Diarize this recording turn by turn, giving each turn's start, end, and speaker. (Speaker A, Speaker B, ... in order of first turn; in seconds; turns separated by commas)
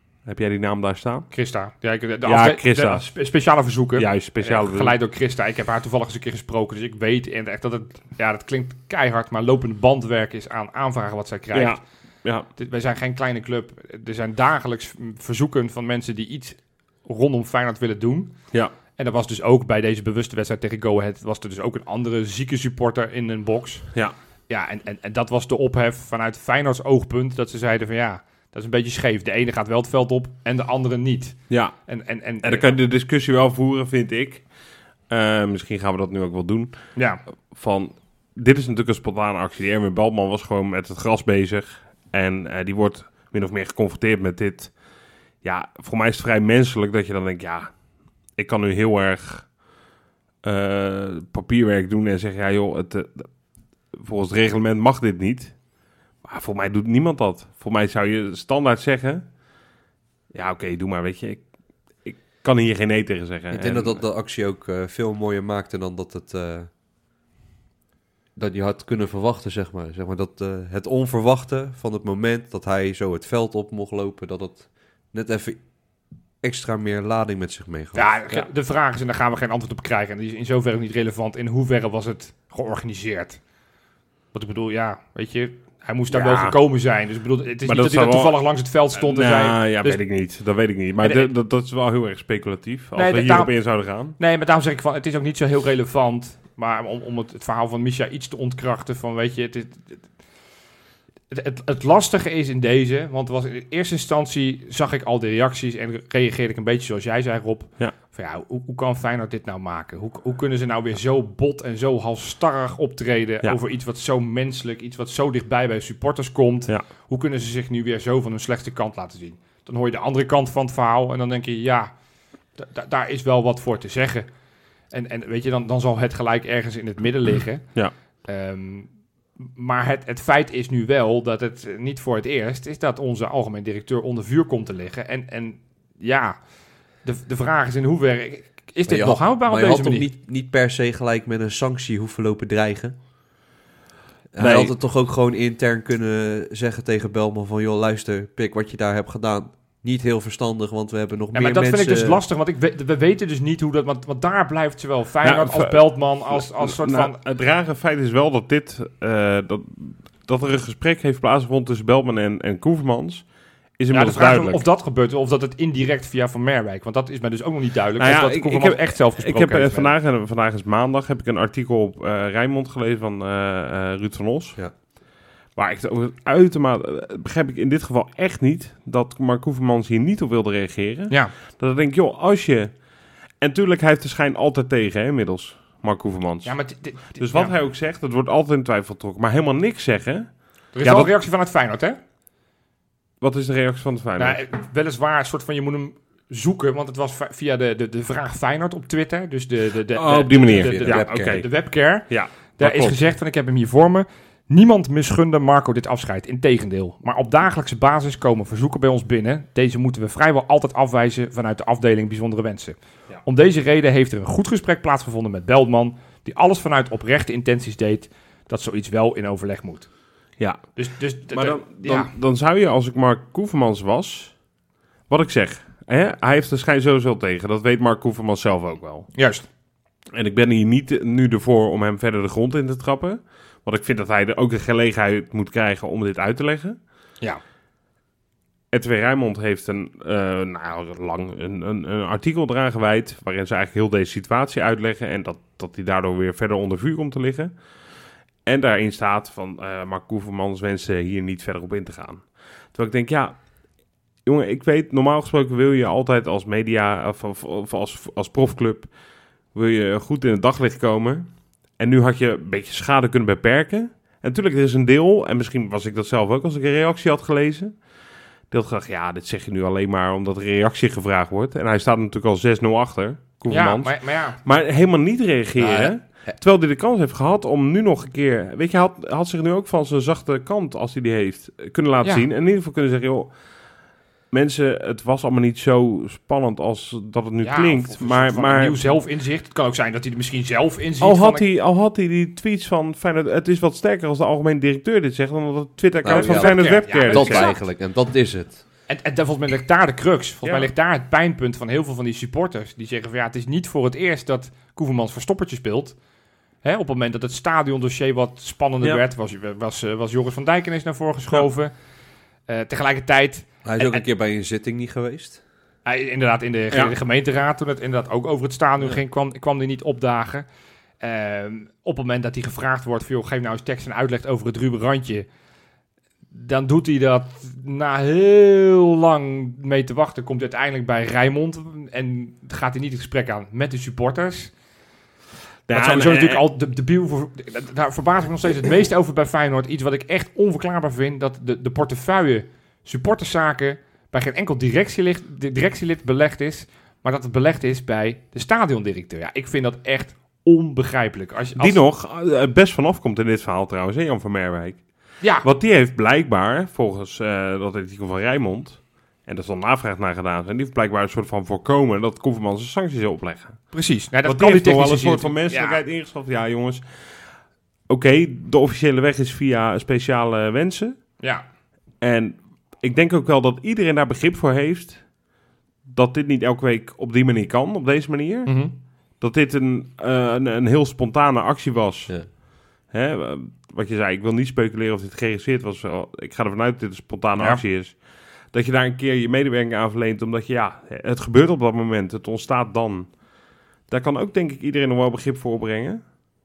Speaker A: 0.2-1.3, Speaker B: 1.3-11.8, Speaker A: 2.2-3.3, Speaker A: 3.9-5.0, Speaker A: 11.5-12.5, Speaker B: 12.5-32.7, Speaker A: 31.5-44.8, Speaker B: 36.9-37.2, Speaker A: 45.4-47.8, Speaker A: 48.3-49.6, Speaker A: 50.4-59.4, Speaker A: 60.3-64.0, Speaker C: 63.5-66.7, Speaker C: 68.3-75.8, Speaker C: 76.4-78.4, Speaker B: 77.9-83.4, Speaker B: 84.3-90.1, Speaker A: 86.1-86.6, Speaker A: 87.6-94.2, Speaker B: 91.0-91.3, Speaker B: 92.9-100.2, Speaker B: 101.3-121.9, Speaker B: 122.5-124.3, Speaker B: 124.9-136.5, Speaker B: 137.0-140.1, Speaker C: 138.9-142.9, Speaker C: 144.3-152.2, Speaker A: 144.4-144.7, Speaker B: 151.3-157.2, Speaker A: 155.2-164.6, Speaker B: 163.9-169.9, Speaker A: 168.0-174.6, Speaker A: 175.5-191.1, Speaker B: 186.4-187.5, Speaker B: 190.7-192.0, Speaker A: 193.2-194.4, Speaker B: 194.2-219.9, Speaker A: 199.9-203.0, Speaker C: 200.6-201.4, Speaker A: 220.4-224.5, Speaker B: 220.7-222.1, Speaker A: 225.1-229.1, Speaker B: 229.1-229.4, Speaker A: 230.1-236.8, Speaker A: 238.7-247.6, Speaker A: 248.4-253.7, Speaker A: 254.2-258.9, Speaker A: 259.5-267.9, Speaker A: 268.5-288.9, Speaker B: 273.5-274.4, Speaker B: 275.6-275.9, Speaker B: 287.4-291.4, Speaker A: 291.0-297.5, Speaker C: 296.0-298.6, Speaker B: 296.1-297.6, Speaker B: 298.9-306.0, Speaker A: 300.4-300.7, Speaker B: 306.6-311.8, Speaker B: 312.4-314.1, Speaker C: 313.6-315.4, Speaker B: 315.8-320.4, Speaker B: 321.0-325.2, Speaker B: 326.3-334.5, Speaker A: 335.7-336.4, Speaker B: 335.7-351.8, Speaker A: 351.6-371.2, Speaker B: 355.2-355.4, Speaker B: 363.7-365.8, Speaker B: 371.2-371.4, Speaker A: 372.0-393.2, Speaker B: 378.4-378.7, Speaker A: 393.8-396.2